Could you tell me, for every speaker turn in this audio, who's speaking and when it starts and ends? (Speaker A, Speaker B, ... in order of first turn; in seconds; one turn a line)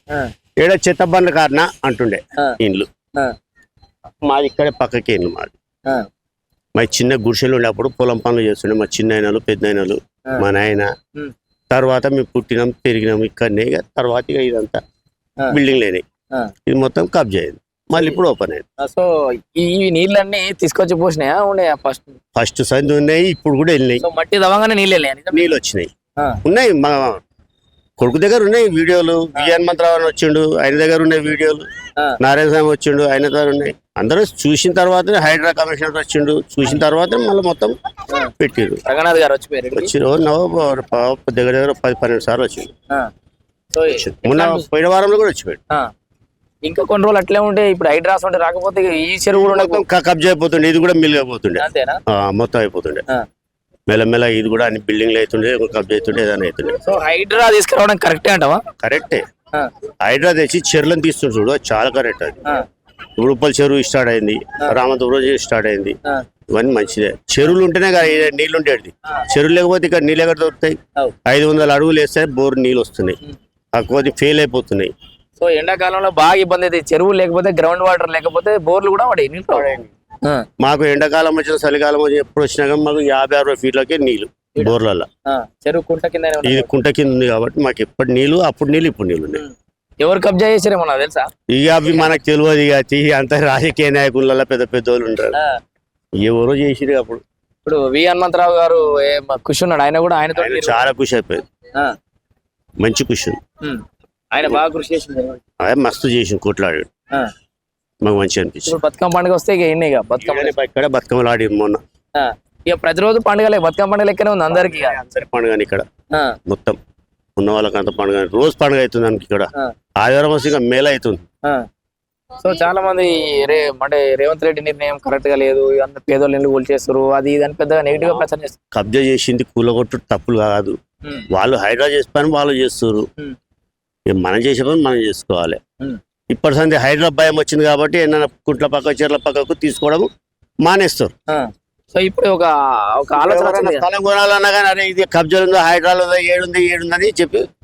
Speaker A: 0.6-2.9
Speaker A: 4.3-5.5
Speaker A: 6.8-10.9
Speaker A: 11.7-14.8
Speaker A: 15.5-16.0
Speaker A: 16.7-18.6
Speaker B: 18.8-22.2
Speaker A: 22.4-24.0
Speaker B: 24.0-25.6
Speaker A: 25.3-25.9
Speaker A: 26.4-27.1
Speaker A: 28.0-31.6
Speaker A: 32.2-37.8
Speaker A: 38.4-38.8
Speaker B: 38.9-39.9
Speaker A: 39.7-42.7
Speaker B: 43.7-44.7
Speaker A: 43.9-45.6
Speaker B: 46.6-49.8
Speaker A: 49.3-53.0
Speaker B: 51.6-52.0
Speaker A: 53.9-56.8
Speaker B: 56.8-58.6
Speaker A: 58.8-59.2
Speaker A: 60.0-62.4
Speaker A: 63.2-66.0
Speaker A: 66.5-73.2
Speaker A: 73.7-74.9
Speaker B: 75.4-79.7
Speaker A: 79.5-79.9
Speaker A: 80.6-85.1
Speaker B: 85.3-86.7
Speaker A: 86.4-89.4
Speaker B: 89.3-91.3
Speaker A: 91.5-95.4
Speaker B: 91.9-92.2
Speaker A: 96.2-97.2
Speaker B: 97.7-100.8
Speaker A: 100.4-101.4
Speaker A: 102.8-103.4
Speaker B: 103.6-105.4
Speaker A: 105.6-106.9
Speaker A: 108.0-108.8
Speaker B: 108.7-110.5
Speaker A: 110.2-111.8
Speaker B: 112.2-115.0
Speaker A: 114.5-115.9
Speaker A: 116.5-116.8
Speaker A: 117.4-121.2
Speaker B: 122.4-128.6
Speaker A: 128.0-130.8
Speaker A: 131.3-133.1
Speaker A: 134.1-135.6
Speaker A: 136.3-140.1
Speaker A: 140.7-141.1
Speaker B: 141.3-143.8
Speaker A: 143.2-147.4